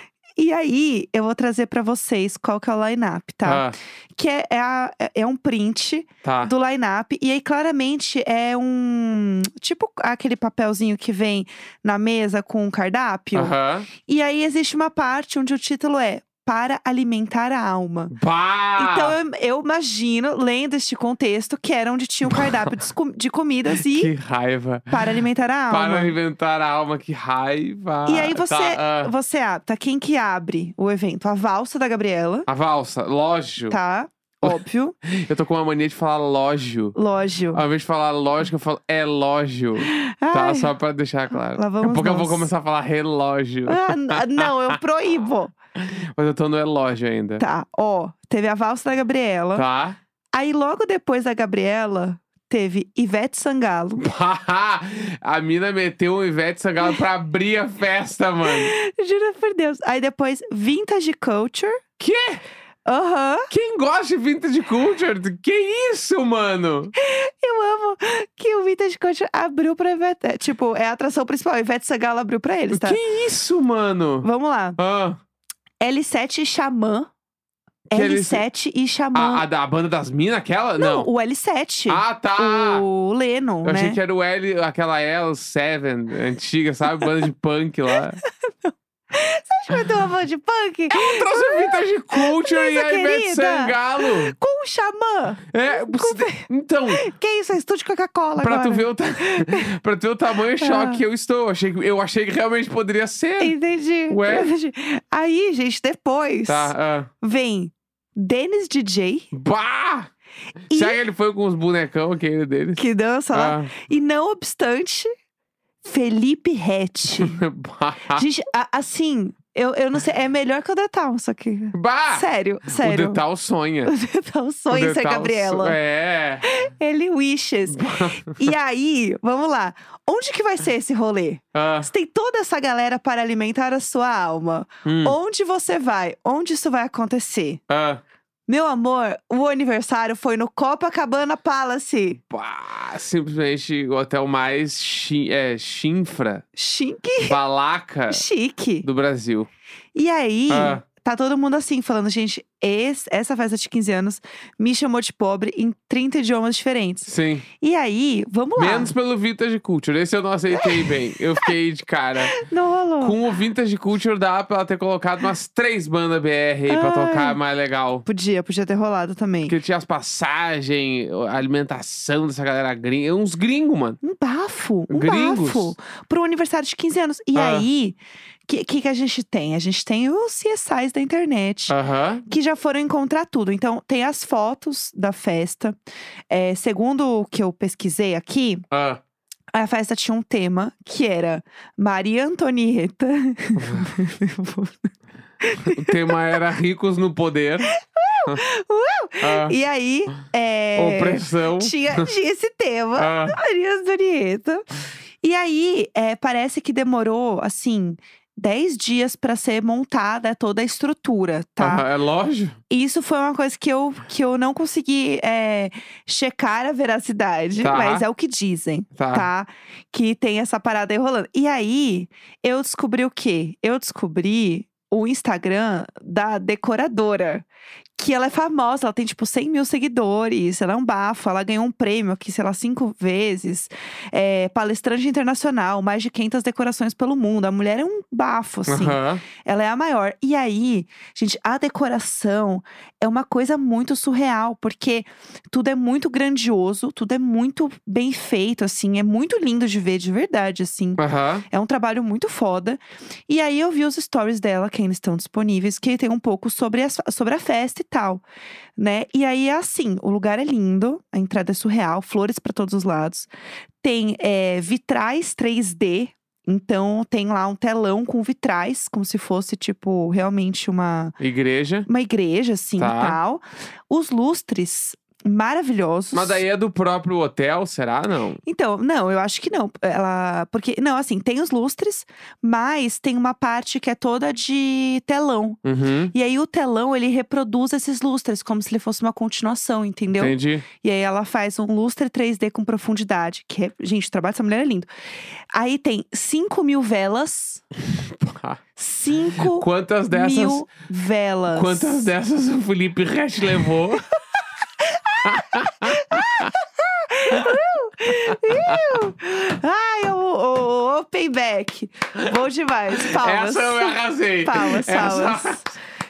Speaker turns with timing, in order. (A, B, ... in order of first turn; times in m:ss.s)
0:00.4-0:18.2 A
0:03.4-0:03.8 B
0:06.2-0:06.5 B
0:13.3-0:13.9 B
0:18.1-0:19.2 B
0:18.8-0:24.1 A
0:23.8-0:25.2 B
0:24.9-0:26.1 A
0:25.7-0:29.1 B
0:28.0-0:32.5 A
0:32.5-0:33.8 B
0:33.7-0:35.0 A
0:34.4-0:37.0 B
0:37.0-0:37.6 A
0:37.5-0:44.5 B
0:39.8-0:40.7 A
0:41.5-0:42.5 A
0:43.6-0:45.5 A
0:45.8-0:47.4 B
0:47.4-0:49.6 A
0:49.5-0:50.0 B
0:50.3-0:54.1 A
0:54.0-0:58.7 B
0:58.4-1:01.8 A
1:02.0-1:02.4 B
1:02.8-1:03.5 A
1:03.5-1:06.9 B
1:07.0-1:13.0 A
1:12.7-1:15.2 B
1:14.2-1:14.8 A
1:15.8-1:17.1 A
1:17.9-1:19.4 A
1:17.9-1:18.4 B
1:19.1-1:21.1 B
1:20.8-1:24.0 A
1:21.9-1:22.8 B
1:23.6-1:28.2 B
1:28.2-1:39.7 A
1:30.9-1:34.3 B
1:35.5-1:37.0 B
1:38.4-1:43.5 B
1:40.6-1:41.0 A
1:43.4-1:49.3 A
1:44.1-1:44.5 B
1:46.5-1:47.1 B
1:49.3-1:50.1 B
1:50.7-1:51.0 A
1:50.7-1:52.8 B
1:52.8-1:55.1 A
1:53.3-1:53.7 B
1:55.8-1:57.4 A
1:57.1-1:58.2 B
1:58.1-2:03.2 A
2:01.7-2:03.9 B
2:03.8-2:05.8 A
2:04.7-2:06.4 B
2:06.4-2:17.6 A
2:07.7-2:08.5 B
2:11.5-2:11.9 B
2:14.8-2:15.2 B
2:17.7-2:18.0 B
2:18.5-2:22.2 A
2:22.3-2:26.4 B
2:26.6-2:27.4 A
2:27.2-2:28.2 B
2:28.1-2:28.9 A
2:28.8-2:29.5 B
2:29.9-2:38.9 A
2:30.5-2:30.8 B
2:37.1-2:37.4 B
2:38.6-2:42.4 B
2:42.3-2:43.2 A
2:43.0-2:48.0 B
2:46.7-2:47.4 A
2:48.0-2:49.6 A
2:49.5-2:54.0 B
2:54.0-3:01.7 A
2:54.9-2:55.7 B
2:57.3-2:57.7 B
3:01.7-3:02.2 B
3:02.2-3:05.8 A
3:06.3-3:08.6 A
3:08.7-3:09.0 B
3:09.5-3:16.1 A
3:13.6-3:13.9 B
3:15.6-3:17.7 B
3:17.7-3:24.6 A
3:19.2-3:19.5 B
3:20.8-3:22.1 B
3:23.0-3:23.4 B
3:25.2-3:31.8 A
3:31.6-3:32.6 B
3:32.7-3:47.4 A
3:37.6-3:38.0 B
3:39.0-3:39.3 B
3:48.0-4:18.2 A
3:58.7-3:59.2 B
4:11.0-4:11.4 B
4:18.8-4:23.3 A
4:23.8-4:31.2 A
4:31.2-4:31.9 B
4:31.8-4:36.4 A
4:32.8-4:33.2 B
4:36.1-4:38.4 B
4:38.4-4:45.6 A
4:45.6-4:46.1 B
4:46.1-4:54.9 A
4:50.2-4:50.6 B
4:55.5-4:57.6 A
4:57.9-4:58.6 B
4:58.8-5:02.1 A
4:59.4-5:00.6 B
5:01.5-5:04.0 B
5:04.8-5:15.6 A
5:05.2-5:06.5 B
5:08.3-5:09.0 B
5:13.0-5:15.7 B